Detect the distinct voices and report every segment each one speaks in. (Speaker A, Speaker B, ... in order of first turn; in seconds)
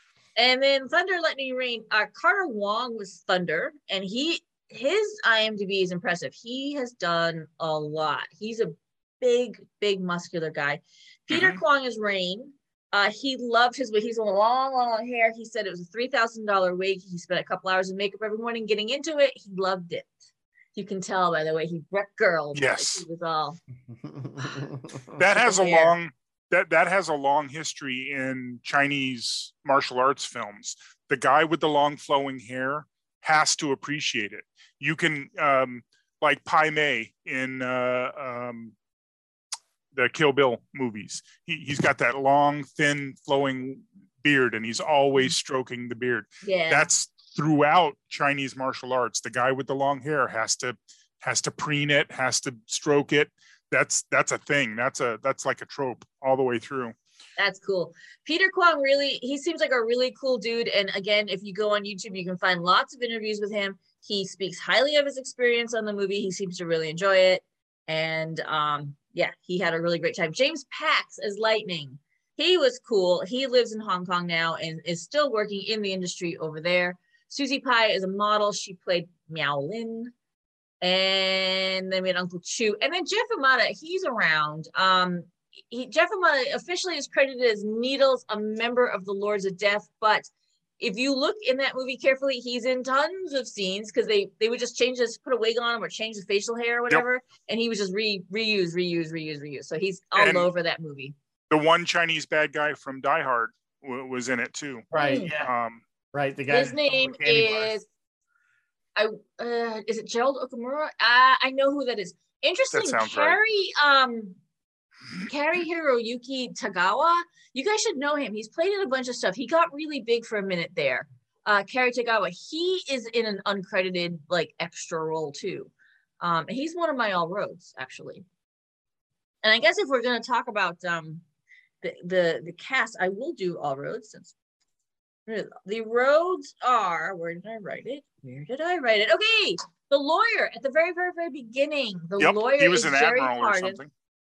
Speaker A: 0.3-20.1, 20.7-23.6, 25.3-25.9, 46.4-46.9, 57.4-80.1, 80.8-90.3, 90.8-101.1, 104.9-105.3, 106.5-107.9, 109.0-114.4, 115.2-128.2, 129.4-131.2, 131.8-134.3, 135.3-143.8
Speaker B: 11.3-11.6, 22.5-23.0, 25.2-38.7, 39.9-56.9, 100.1-100.5, 101.5-105.8, 112.7-113.4, 142.2-143.9
Speaker C: 23.9-25.2, 104.9-105.5, 106.1-107.8